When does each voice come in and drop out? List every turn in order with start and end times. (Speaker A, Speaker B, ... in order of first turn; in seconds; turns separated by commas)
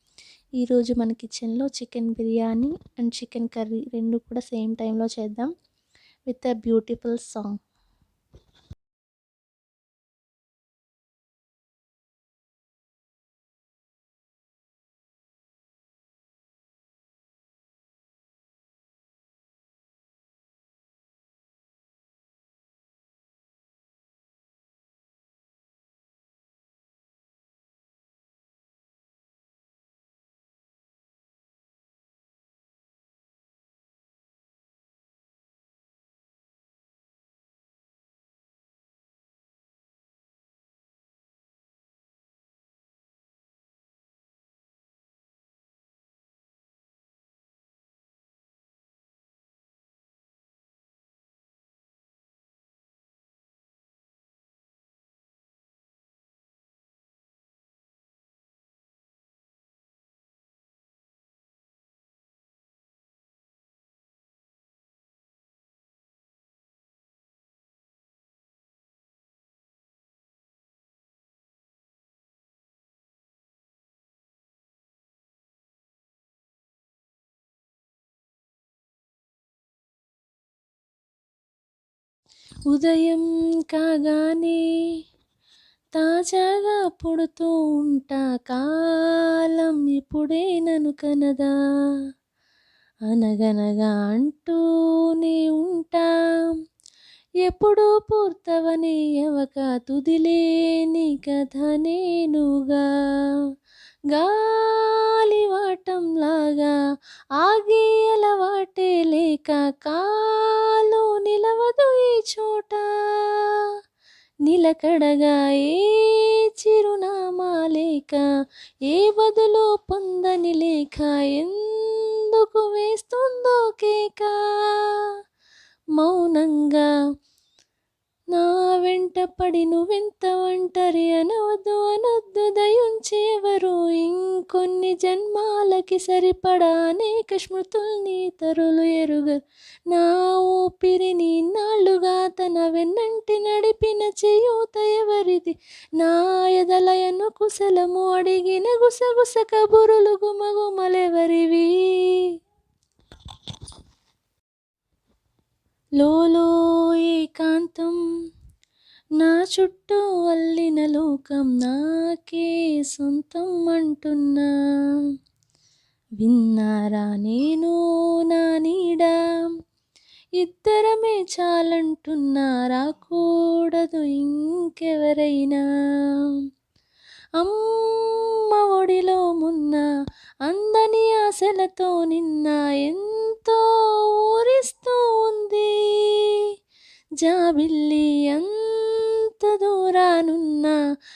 Speaker A: 0.6-5.5, Speaker A: 6.3-7.6, Speaker A: 82.7-84.6, Speaker A: 86.0-91.5, Speaker A: 93.1-94.6, Speaker A: 95.1-96.5, Speaker A: 97.4-103.3, Speaker A: 104.1-106.8, Speaker A: 107.4-113.7, Speaker A: 114.5-118.2, Speaker A: 118.9-125.1, Speaker A: 126.0-126.9, Speaker A: 128.3-139.4, Speaker A: 139.9-152.3, Speaker A: 156.0-158.0, Speaker A: 159.2-164.5, Speaker A: 166.2-169.5, Speaker A: 170.4-176.4, Speaker A: 177.4-179.9, Speaker A: 180.5-186.5, Speaker A: 187.2-190.8